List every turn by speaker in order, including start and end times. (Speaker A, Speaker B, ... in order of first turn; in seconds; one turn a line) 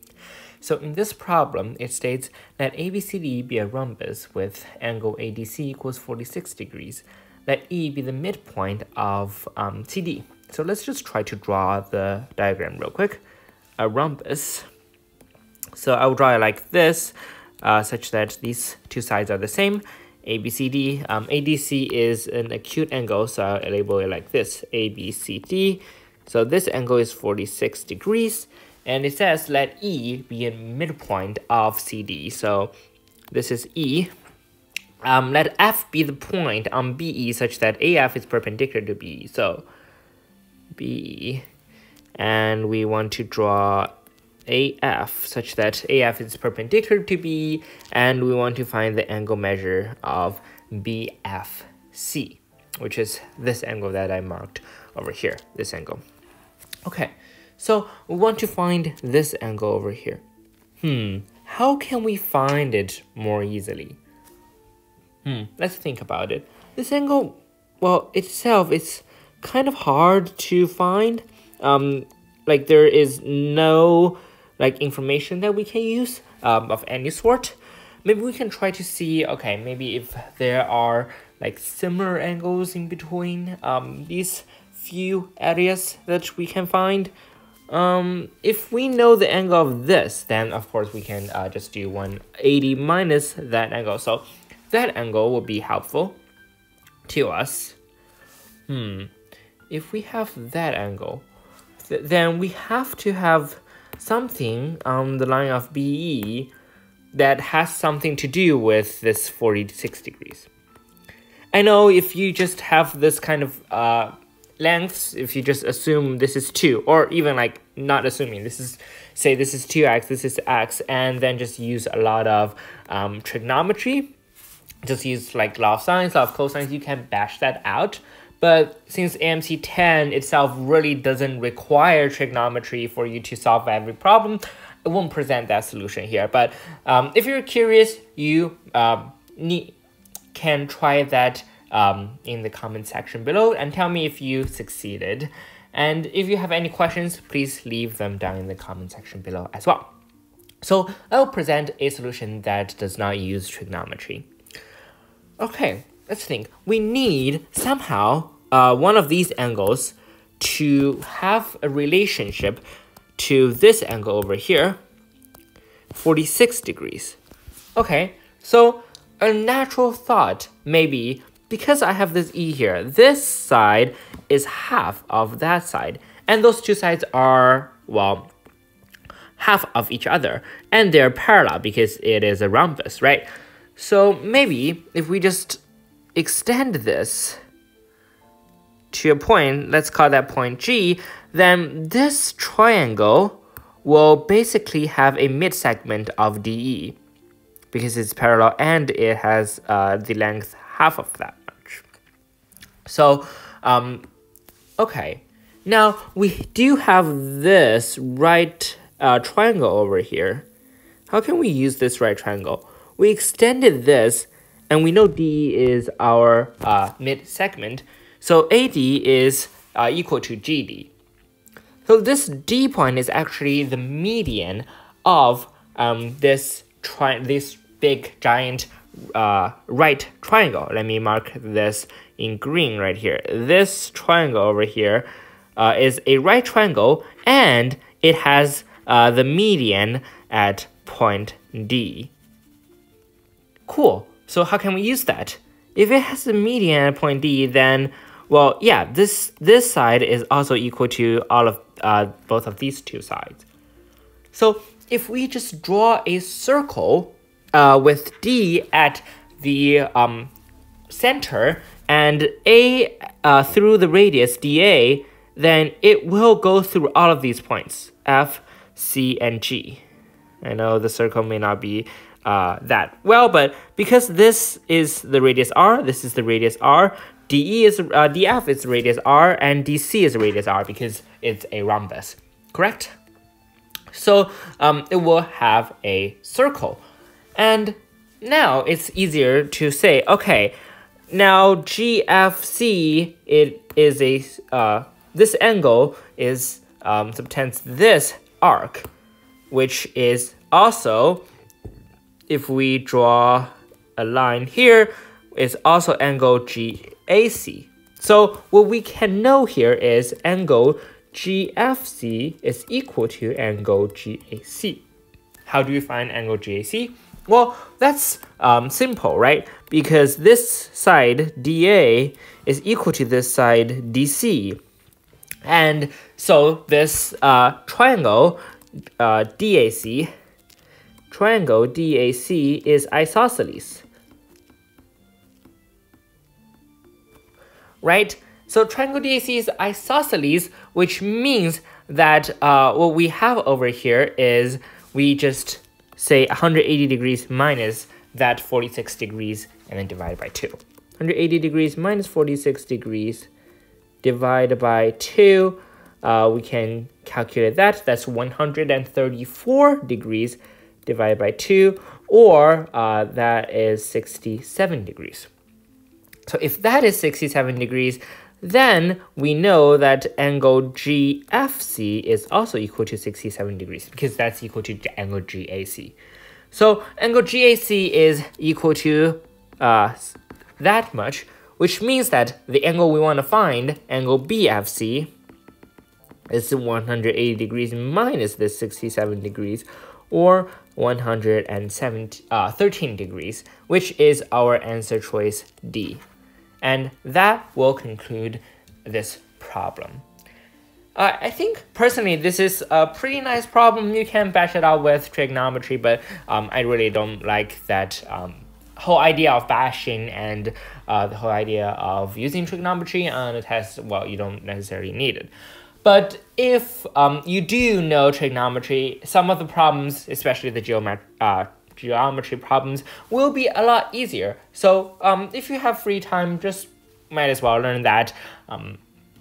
Speaker A: 0.6-13.2
Speaker A: 13.8-14.6
Speaker A: 15.8-32.7
Speaker A: 33.3-34.1
Speaker A: 35.0-39.6
Speaker A: 40.7-41.4
Speaker A: 42.1-43.9
Speaker A: 44.5-56.0
Speaker A: 56.9-60.2
Speaker A: 60.8-64.0
Speaker A: 65.2-87.1
Speaker A: 87.7-96.2
Speaker A: 97.1-97.8
Speaker A: 98.7-99.1
Speaker A: 99.7-101.2
Speaker A: 101.8-106.5
Speaker A: 107.1-110.5
Speaker A: 111.5-124.1
Speaker A: 124.8-139.8
Speaker A: 140.3-149.9
Speaker A: 150.6-154.3
Speaker A: 155.4-162.6
Speaker A: 163.2-164.8
Speaker A: 165.9-167.2
Speaker A: 167.8-178.3
Speaker A: 179.4-185.6
Speaker A: 186.1-187.4
Speaker A: 188.9-197.0
Speaker A: 197.7-201.8
Speaker A: 202.8-204.0
Speaker A: 204.8-210.5
Speaker A: 211.1-220.9
Speaker A: 221.8-242.1
Speaker A: 243.7-253.4
Speaker A: 254.3-260.3
Speaker A: 260.9-269.8
Speaker A: 270.4-282.9
Speaker A: 283.9-286.8
Speaker A: 287.4-290.5
Speaker A: 291.1-298.9
Speaker A: 299.5-301.2
Speaker A: 302.3-314.8
Speaker A: 315.4-324.6
Speaker A: 325.4-328.4
Speaker A: 329.0-330.1
Speaker A: 331.1-333.8
Speaker A: 337.8-353.3
Speaker A: 354.0-365.3
Speaker A: 366.3-375.9
Speaker A: 376.5-385.1
Speaker A: 386.3-396.0
Speaker A: 396.6-400.0
Speaker A: 400.9-415.3
Speaker A: 415.8-428.8